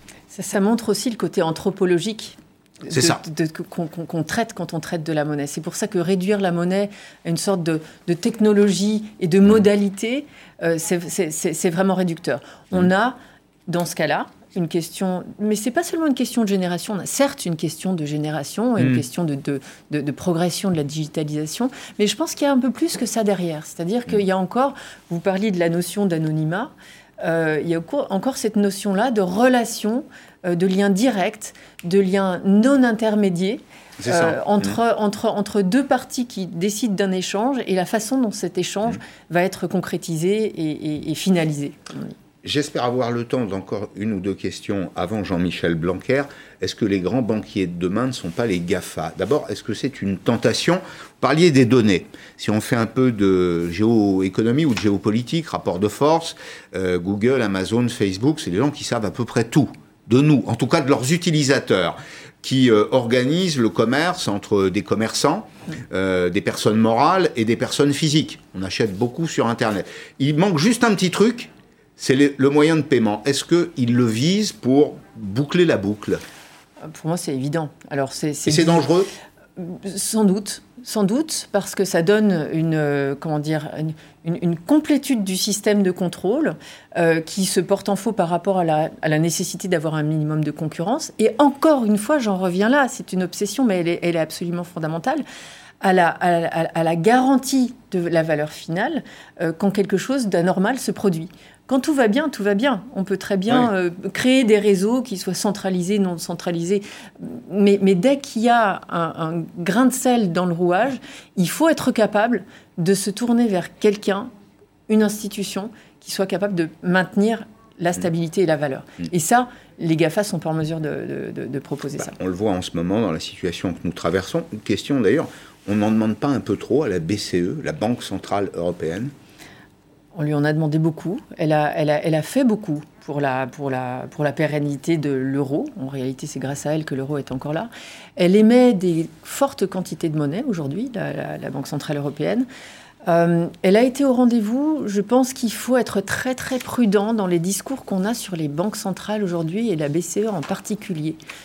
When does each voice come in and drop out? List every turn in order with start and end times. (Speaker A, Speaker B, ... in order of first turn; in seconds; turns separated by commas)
Speaker A: 0.3-42.1, Speaker B: 2.9-3.2, Speaker B: 18.8-19.0, Speaker B: 34.0-34.8, Speaker B: 42.4-76.2, Speaker A: 76.9-78.9, Speaker B: 78.5-79.1, Speaker A: 79.6-95.2, Speaker A: 95.8-114.3, Speaker A: 114.9-122.1, Speaker B: 122.0-129.1, Speaker A: 130.1-142.5, Speaker A: 143.1-151.2